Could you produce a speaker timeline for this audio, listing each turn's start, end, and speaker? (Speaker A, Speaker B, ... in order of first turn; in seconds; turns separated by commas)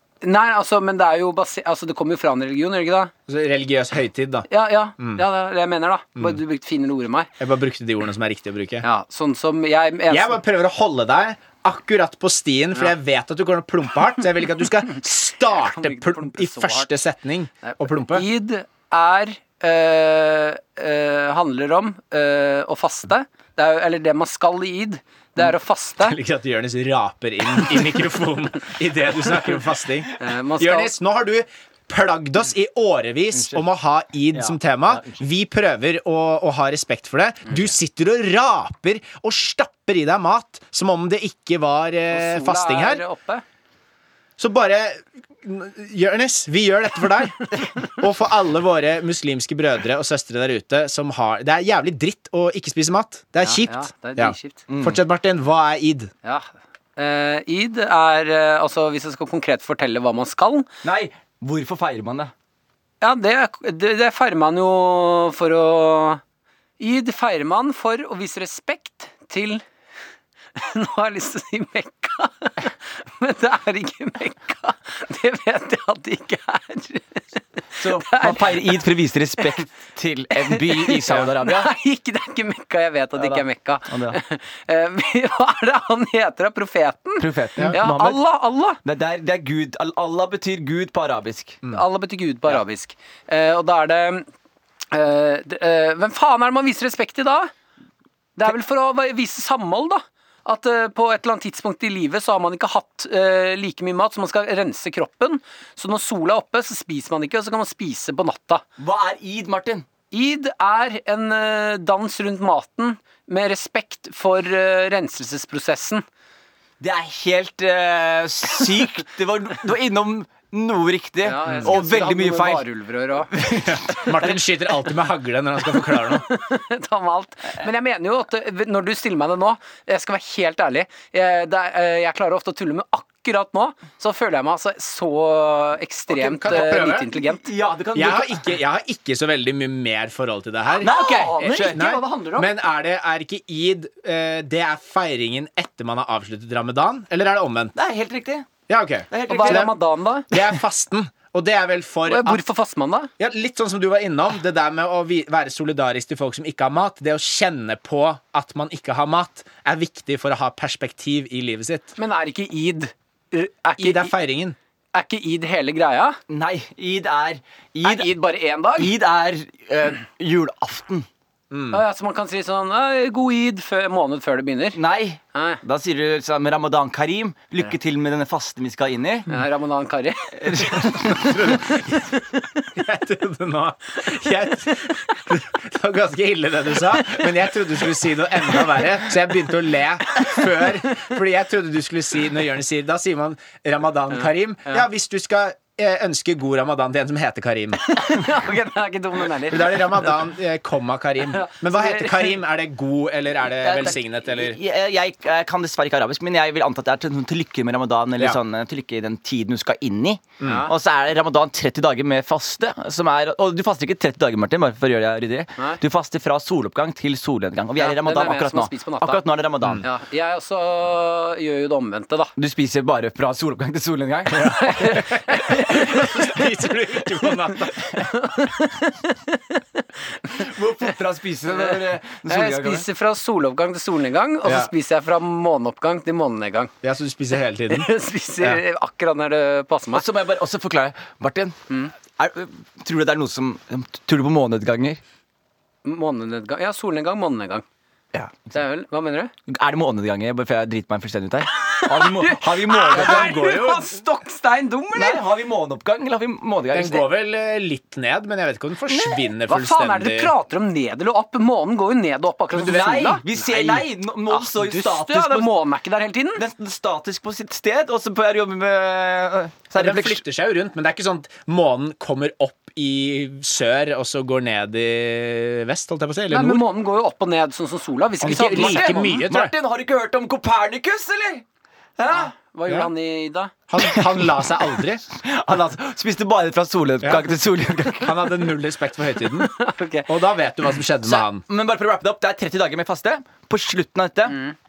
Speaker A: 0.2-3.1, Speaker B: 3.3-4.5, Speaker A: 4.5-7.3, Speaker B: 7.4-8.8, Speaker A: 8.8-10.4, Speaker B: 10.1-18.2, Speaker A: 15.5-16.9, Speaker A: 17.6-26.2, Speaker B: 26.0-43.0, Speaker A: 30.2-30.9, Speaker C: 33.3-33.6, Speaker C: 34.3-35.2, Speaker A: 42.1-43.4, Speaker B: 44.4-56.1, Speaker A: 53.4-54.6, Speaker C: 54.7-55.0, Speaker A: 56.2-60.7, Speaker C: 60.8-62.3, Speaker A: 63.0-66.2, Speaker A: 66.8-69.6, Speaker A: 70.5-77.2, Speaker C: 77.8-81.7, Speaker A: 77.8-78.7, Speaker A: 80.3-88.8, Speaker C: 83.2-84.2, Speaker C: 87.2-88.2, Speaker C: 88.8-91.6, Speaker A: 91.7-94.3, Speaker A: 94.9-97.5, Speaker A: 98.4-108.6, Speaker C: 108.8-109.9, Speaker A: 110.1-116.0, Speaker C: 116.8-122.7, Speaker A: 121.2-123.3, Speaker C: 123.3-123.8, Speaker B: 123.4-126.2, Speaker A: 126.0-137.4, Speaker B: 136.1-137.1, Speaker C: 136.5-138.5, Speaker B: 137.9-140.9, Speaker C: 140.8-142.0, Speaker A: 140.8-142.5, Speaker B: 141.5-147.7, Speaker C: 147.7-148.5, Speaker B: 148.7-149.7, Speaker C: 149.1-149.7, Speaker A: 149.3-150.3, Speaker B: 150.3-152.4, Speaker A: 152.1-153.1, Speaker B: 153.2-161.9, Speaker A: 162.0-164.1, Speaker B: 163.8-164.6, Speaker A: 164.9-166.2, Speaker C: 166.3-168.1, Speaker A: 167.8-168.9, Speaker C: 168.8-171.1, Speaker B: 171.5-171.8, Speaker A: 171.7-174.8, Speaker C: 174.7-179.3, Speaker A: 175.3-175.6, Speaker A: 179.3-180.7, Speaker C: 180.4-181.3, Speaker B: 180.8-182.1, Speaker A: 182.1-182.6, Speaker B: 182.7-197.8, Speaker A: 194.1-194.8, Speaker A: 197.8-200.2, Speaker B: 199.5-204.6, Speaker A: 201.3-202.4, Speaker C: 203.5-219.8, Speaker B: 210.4-210.7, Speaker A: 210.4-210.7, Speaker A: 217.8-219.2, Speaker A: 219.8-222.3, Speaker C: 222.4-224.7, Speaker B: 224.4-228.0, Speaker A: 224.4-226.4, Speaker A: 228.0-230.5, Speaker C: 230.3-232.8, Speaker A: 231.5-236.7, Speaker B: 234.4-234.7, Speaker B: 236.8-238.6, Speaker A: 237.7-240.0, Speaker C: 239.9-241.6, Speaker C: 242.2-245.0, Speaker A: 245.8-247.6, Speaker C: 248.1-248.5, Speaker A: 248.5-249.3, Speaker C: 249.5-253.4, Speaker A: 251.6-255.2, Speaker B: 252.9-253.9, Speaker C: 254.9-257.1, Speaker B: 256.7-260.3, Speaker A: 258.9-266.4, Speaker C: 262.5-265.5, Speaker C: 266.4-270.2, Speaker B: 269.7-276.6, Speaker A: 276.3-279.2, Speaker B: 278.2-279.5, Speaker C: 278.4-281.4, Speaker C: 282.0-282.3, Speaker A: 282.1-283.5, Speaker B: 283.7-285.0, Speaker C: 283.8-284.5, Speaker C: 285.1-288.4, Speaker B: 287.0-287.3, Speaker B: 287.9-289.5, Speaker A: 289.3-290.1, Speaker B: 290.1-291.4, Speaker C: 291.0-294.4, Speaker A: 294.3-294.5